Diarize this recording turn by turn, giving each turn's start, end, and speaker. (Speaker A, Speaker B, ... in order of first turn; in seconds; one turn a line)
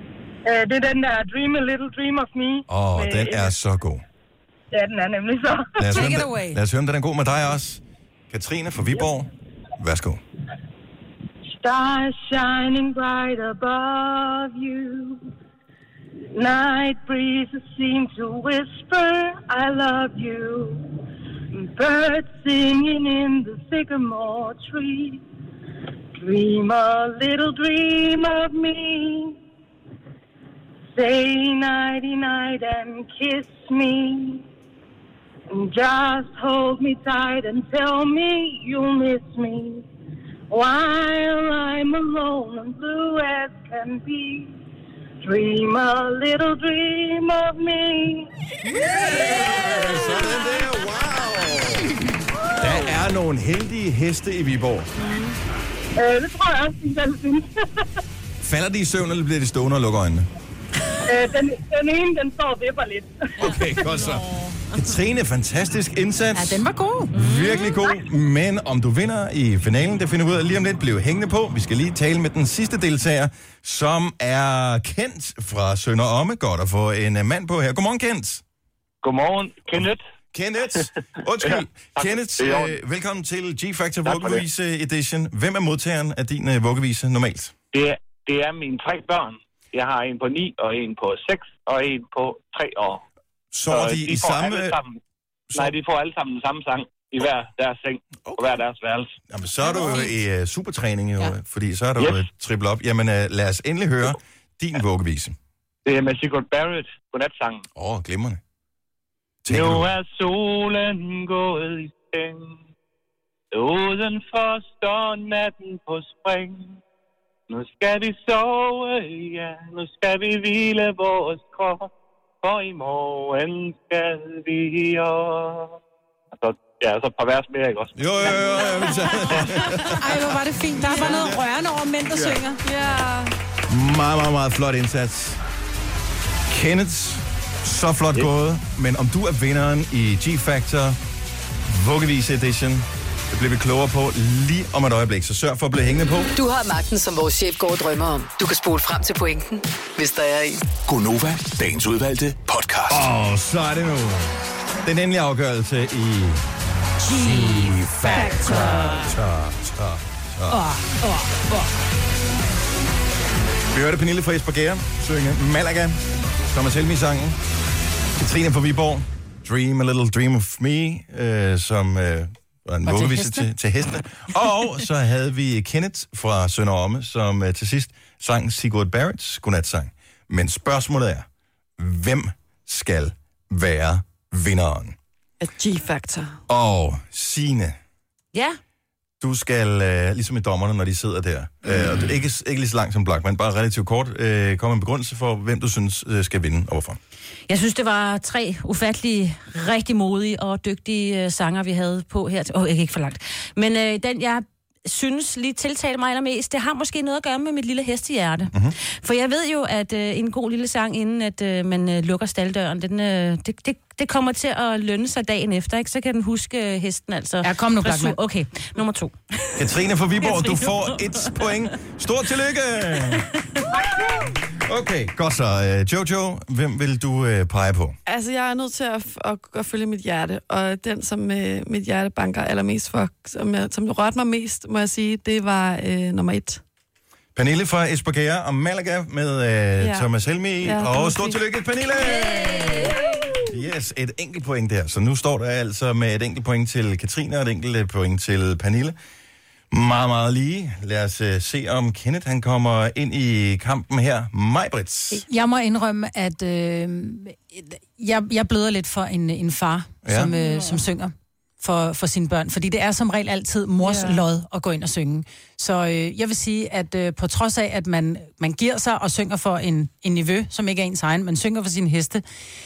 Speaker A: 0.4-3.5
Speaker B: 2.7-4.0
Speaker A: 4.7-5.9
Speaker B: 5.8-10.2
Speaker C: 5.9-6.6
Speaker A: 11.5-15.2
Speaker A: 16.3-20.9
Speaker A: 21.5-25.2
Speaker A: 26.1-29.4
Speaker A: 30.9-34.4
Speaker A: 35.5-39.8
Speaker A: 40.5-44.5
Speaker A: 45.2-48.3
Speaker B: 49.1-52.0
Speaker B: 52.6-54.9
Speaker A: 56.0-57.7
Speaker B: 58.4-60.3
Speaker A: 61.1-63.8
Speaker B: 63.4-78.4
Speaker D: 63.4-64.9
Speaker C: 66.3-67.1
Speaker D: 67.1-68.0
Speaker E: 79.0-80.0
Speaker B: 79.8-87.5
Speaker E: 81.4-82.8
Speaker E: 84.0-84.4
Speaker E: 87.7-93.0
Speaker B: 93.5-94.8
Speaker E: 93.7-95.0
Speaker B: 95.5-95.8
Speaker E: 95.5-99.1
Speaker B: 98.2-98.6
Speaker B: 99.3-105.3
Speaker C: 99.7-100.1
Speaker E: 102.0-102.3
Speaker E: 105.8-107.6
Speaker B: 107.7-108.4
Speaker B: 109.4-109.9
Speaker E: 109.5-112.6
Speaker E: 113.5-116.8
Speaker E: 117.5-125.8
Speaker E: 126.3-128.7
Speaker B: 128.0-130.2
Speaker C: 129.9-132.6
Speaker F: 132.6-133.3
Speaker B: 133.7-135.4
Speaker B: 136.5-141.0
Speaker B: 141.7-146.3
Speaker G: 146.3-150.6
Speaker H: 150.8-153.1
Speaker B: 152.9-156.4
Speaker C: 157.0-159.1
Speaker B: 157.0-160.6
Speaker F: 158.1-158.6
Speaker C: 160.5-161.7
Speaker B: 163.7-167.4
Speaker B: 168.2-181.2
Speaker C: 172.8-173.5
Speaker B: 181.8-184.9
Speaker F: 185.4-186.4
Speaker B: 186.5-187.8
Speaker D: 188.3-188.6
Speaker B: 189.2-197.0
Speaker D: 197.5-219.7
Speaker C: 217.4-218.2
Speaker B: 219.6-223.3
Speaker D: 220.2-221.7
Speaker B: 224.5-228.0
Speaker F: 228.1-236.6
Speaker B: 237.3-248.9
Speaker F: 239.8-240.1
Speaker F: 240.6-241.4
Speaker D: 242.0-243.0
Speaker B: 249.7-255.2
Speaker C: 255.1-272.2
Speaker B: 260.0-260.3
Speaker F: 263.8-264.2